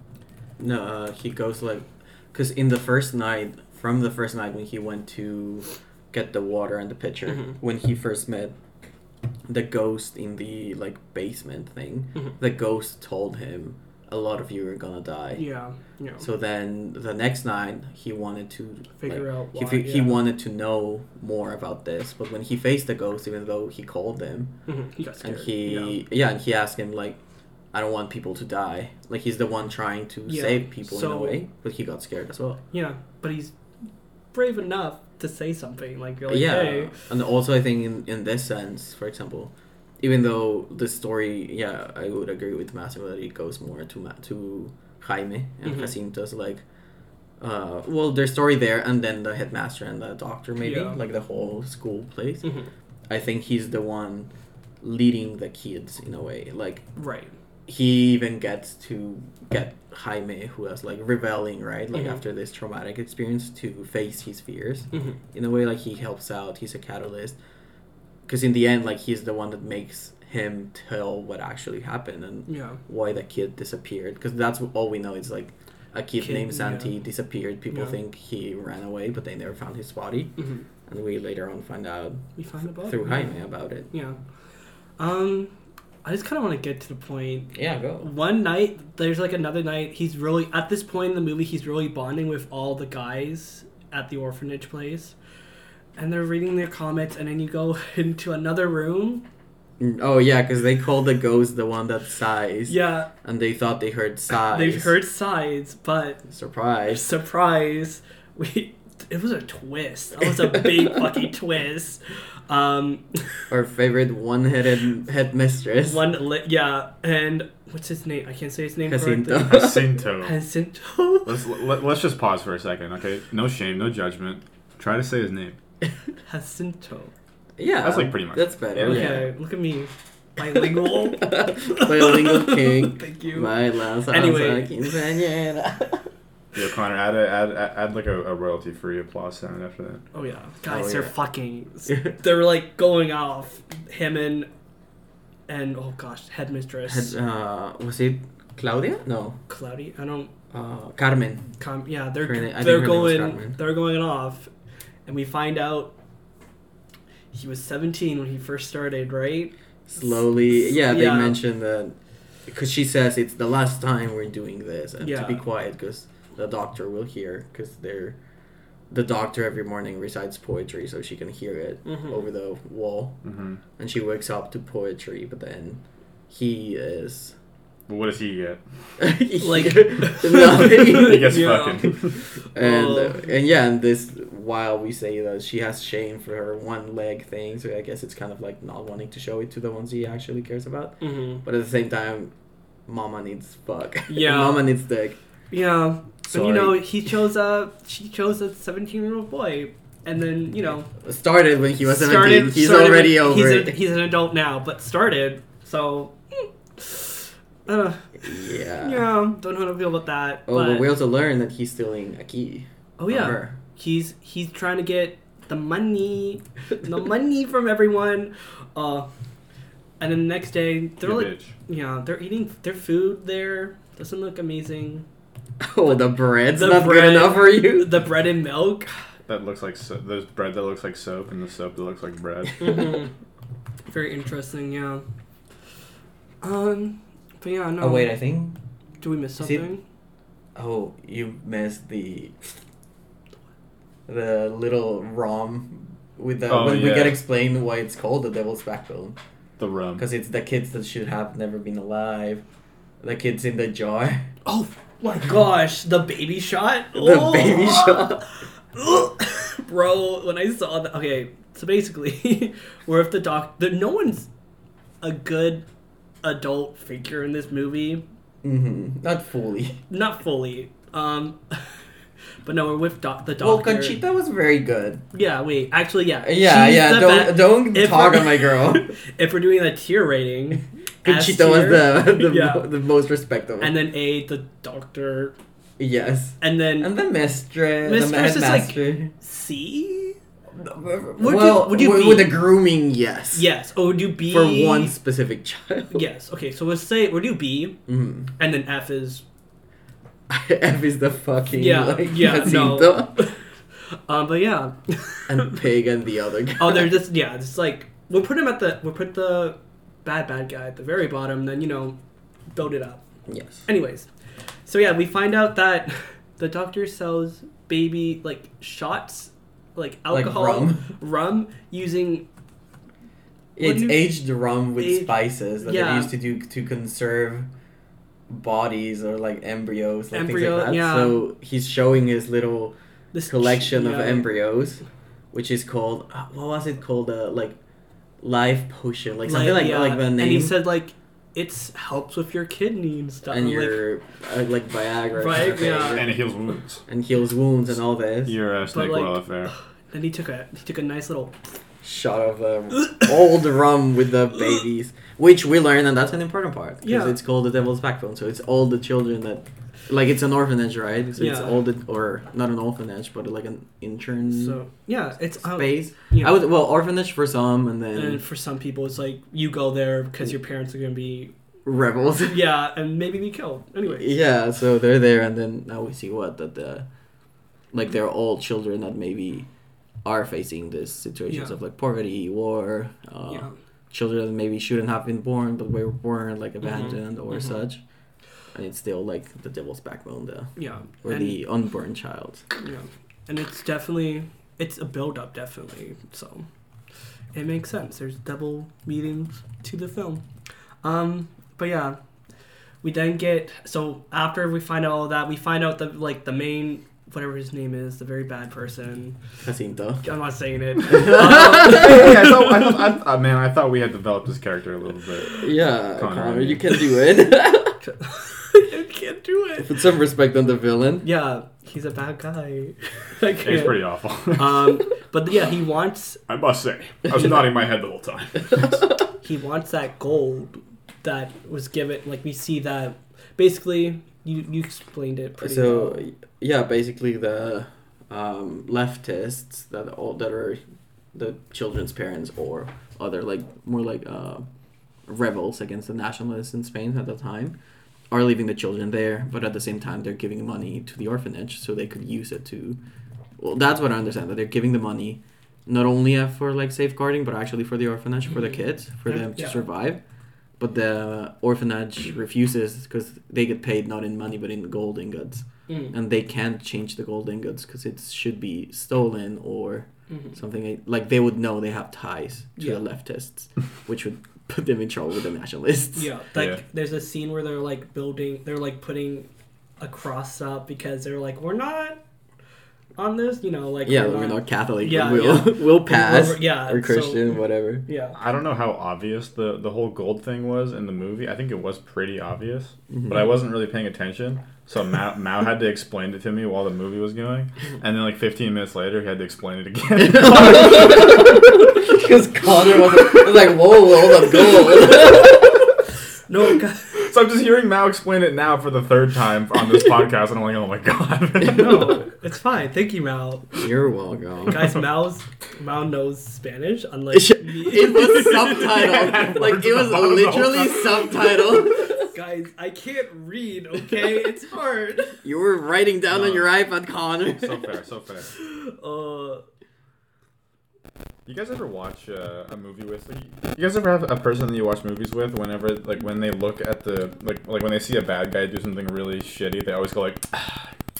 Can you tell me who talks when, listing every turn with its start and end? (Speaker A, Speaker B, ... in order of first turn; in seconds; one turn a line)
Speaker A: 0.6-8.6
Speaker B: 7.3-7.6
Speaker A: 9.5-15.4
Speaker B: 15.3-16.3
Speaker A: 16.2-24.6
Speaker B: 19.0-20.2
Speaker B: 24.7-26.0
Speaker A: 25.2-27.2
Speaker A: 27.7-32.6
Speaker B: 30.3-31.4
Speaker B: 32.7-33.5
Speaker B: 34.3-36.9
Speaker A: 36.3-46.6
Speaker B: 45.6-45.9
Speaker A: 47.4-52.5
Speaker B: 50.6-51.0
Speaker B: 52.4-52.7
Speaker A: 53.1-56.9
Speaker B: 57.0-57.3
Speaker A: 57.7-67.4
Speaker B: 61.9-62.2
Speaker B: 64.9-65.2
Speaker A: 68.3-80.4
Speaker B: 72.5-72.8
Speaker B: 76.2-77.0
Speaker B: 77.7-78.0
Speaker B: 80.4-80.7
Speaker A: 80.9-82.2
Speaker B: 82.4-83.3
Speaker A: 82.8-83.9
Speaker B: 83.9-84.2
Speaker B: 85.0-85.5
Speaker B: 86.0-95.2
Speaker A: 87.5-88.1
Speaker B: 96.0-99.2
Speaker A: 99.8-105.0
Speaker B: 102.7-103.1
Speaker B: 104.5-106.2
Speaker A: 106.3-107.1
Speaker B: 106.9-113.2
Speaker A: 113.5-116.0
Speaker B: 115.8-121.3
Speaker A: 118.9-119.9
Speaker C: 119.5-120.4
Speaker C: 121.2-125.6
Speaker B: 126.3-127.1
Speaker A: 127.6-129.3
Speaker C: 127.8-129.2
Speaker B: 128.8-134.8
Speaker A: 131.1-136.1
Speaker C: 136.5-140.0
Speaker B: 140.1-144.5
Speaker A: 140.7-141.1
Speaker B: 145.5-147.2
Speaker A: 146.9-149.4
Speaker B: 149.5-150.3
Speaker A: 150.5-151.5
Speaker B: 151.6-154.5
Speaker A: 152.2-153.6
Speaker B: 155.1-155.9
Speaker B: 157.3-161.4
Speaker A: 159.9-168.2
Speaker B: 165.0-165.4
Speaker A: 168.9-173.2
Speaker B: 171.9-172.2
Speaker C: 173.2-173.6
Speaker A: 173.8-177.3
Speaker C: 177.9-178.6
Speaker A: 179.0-181.5
Speaker B: 179.4-183.2
Speaker C: 180.4-182.2
Speaker A: 182.5-192.3
Speaker B: 191.0-191.4
Speaker A: 192.9-195.2
Speaker B: 194.1-194.7
Speaker B: 195.5-200.9
Speaker A: 196.3-196.8
Speaker A: 201.0-203.8
Speaker B: 201.8-210.9
Speaker A: 208.2-209.1
Speaker A: 210.5-213.6
Speaker B: 213.0-219.1
Speaker B: 220.0-225.1
Speaker C: 221.0-221.6
Speaker A: 225.6-228.0
Speaker B: 226.5-228.9
Speaker C: 229.3-232.9
Speaker B: 232.6-233.1
Speaker B: 233.9-235.0
Speaker B: 236.4-238.1
Speaker A: 237.8-238.6
Speaker B: 239.0-239.8
Speaker A: 239.4-239.7
Speaker A: 240.6-242.4
Speaker A: 244.1-249.2
Speaker C: 246.5-247.2
Speaker C: 249.6-250.1
Speaker A: 250.0-252.4
Speaker A: 253.0-254.3
Speaker B: 254.4-258.1
Speaker A: 256.9-258.2
Speaker B: 258.7-264.3
Speaker B: 265.0-265.6
Speaker B: 266.2-268.0
Speaker A: 268.4-269.8
Speaker B: 269.9-271.7
Speaker B: 272.4-274.0
Speaker A: 273.4-275.0
Speaker B: 275.1-282.7
Speaker A: 276.2-278.9
Speaker A: 281.0-283.8
Speaker B: 283.6-285.4
Speaker A: 285.8-289.1
Speaker B: 286.4-286.9
Speaker B: 287.8-290.2
Speaker A: 290.5-293.5
Speaker B: 291.2-292.4
Speaker B: 293.3-294.9
Speaker A: 294.2-296.0
Speaker B: 295.9-297.8
Speaker A: 297.9-298.3
Speaker B: 298.4-299.2
Speaker A: 300.3-303.3
Speaker B: 301.5-303.4
Speaker B: 303.9-305.6
Speaker A: 305.3-306.9
Speaker B: 306.6-312.0
Speaker B: 312.5-313.0
Speaker A: 313.3-313.6
Speaker B: 313.7-314.1
Speaker B: 314.7-322.3
Speaker A: 320.1-320.9
Speaker A: 323.6-327.5
Speaker B: 323.6-324.1
Speaker B: 324.8-326.1
Speaker A: 328.3-332.8
Speaker B: 330.1-331.2
Speaker B: 333.1-334.3
Speaker A: 333.3-334.8
Speaker A: 335.3-337.6
Speaker A: 338.2-340.6
Speaker B: 339.2-343.8
Speaker A: 343.3-346.1
Speaker B: 345.2-346.1
Speaker C: 345.8-346.8
Speaker A: 346.9-348.4
Speaker C: 348.2-349.5
Speaker B: 348.7-351.4
Speaker A: 351.8-364.6
Speaker B: 356.8-357.2
Speaker B: 361.2-361.6
Speaker B: 364.2-366.4
Speaker A: 365.4-368.2
Speaker B: 367.9-371.3
Speaker A: 371.6-372.4
Speaker B: 372.2-374.1
Speaker A: 373.9-376.9
Speaker A: 377.7-379.5
Speaker A: 380.0-387.8
Speaker B: 381.3-381.6
Speaker B: 383.3-383.5
Speaker B: 386.6-387.6
Speaker A: 388.5-390.5
Speaker B: 390.6-391.4
Speaker A: 391.0-392.4
Speaker B: 392.6-396.5
Speaker B: 397.3-400.2
Speaker B: 400.8-402.0
Speaker B: 402.8-409.2
Speaker A: 409.4-410.0
Speaker B: 410.0-412.3
Speaker A: 410.9-411.9
Speaker C: 411.3-416.7
Speaker A: 415.4-417.8
Speaker B: 417.8-419.7
Speaker A: 419.6-421.1
Speaker B: 421.0-423.8
Speaker C: 423.4-424.8
Speaker B: 424.4-426.2
Speaker C: 426.3-428.9
Speaker B: 429.2-436.0
Speaker A: 435.4-440.6
Speaker A: 441.1-444.4
Speaker A: 445.1-447.6
Speaker A: 448.1-452.8
Speaker A: 453.4-460.0
Speaker B: 459.1-459.6
Speaker A: 460.6-476.1
Speaker B: 465.7-465.9
Speaker B: 475.9-479.3
Speaker C: 476.4-476.6
Speaker B: 479.8-482.0
Speaker B: 483.0-488.2
Speaker A: 483.9-487.9
Speaker C: 488.1-501.3
Speaker A: 500.0-505.7
Speaker B: 506.3-506.9
Speaker C: 507.0-512.0
Speaker B: 511.4-513.6
Speaker A: 513.6-514.8
Speaker B: 514.5-518.8
Speaker A: 517.1-522.1
Speaker C: 518.4-521.2
Speaker B: 522.1-525.2
Speaker A: 525.2-527.7
Speaker C: 526.1-526.5
Speaker C: 527.2-528.3
Speaker B: 528.4-529.4
Speaker C: 531.3-540.7